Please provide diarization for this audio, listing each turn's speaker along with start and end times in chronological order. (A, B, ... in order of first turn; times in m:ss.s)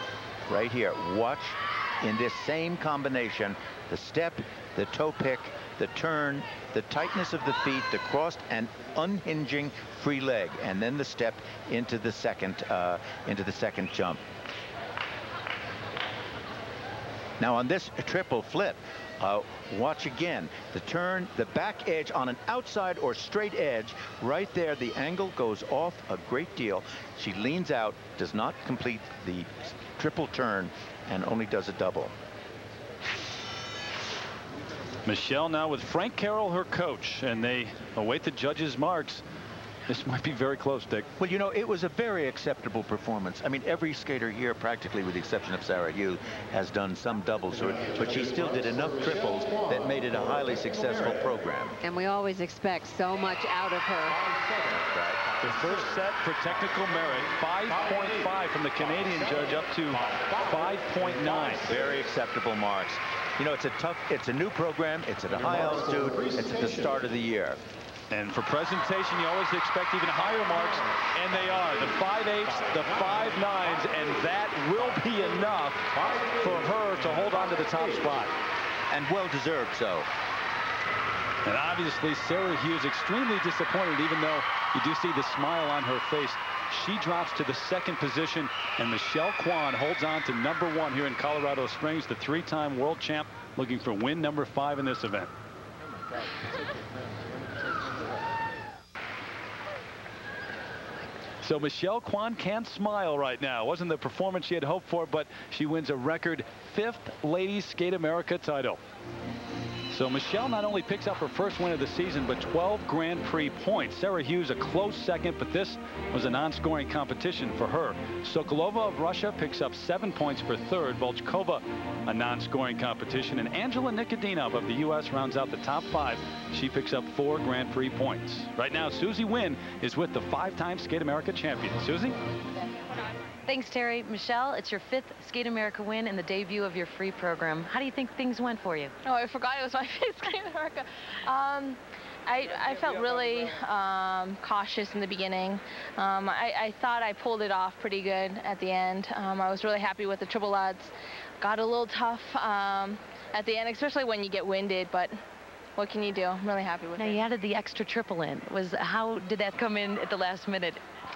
0:00.5-0:14.2 A
0:17.4-0:32.1 A
0:35.0-0:39.2 B
0:39.9-0:41.1 B
0:41.2-0:51.7 A
0:51.8-0:54.2 C
0:54.7-0:55.2 A
0:55.4-1:01.7 B
1:01.7-1:07.6 A
1:08.1-1:18.3 B
1:18.9-1:20.1 A
1:21.4-1:35.3 B
1:41.4-1:48.8 B
1:49.9-2:12.2 B
2:13.4-2:18.9 D
2:19.0-2:35.1 E
2:35.8-2:37.2 E
2:37.0-2:40.8 D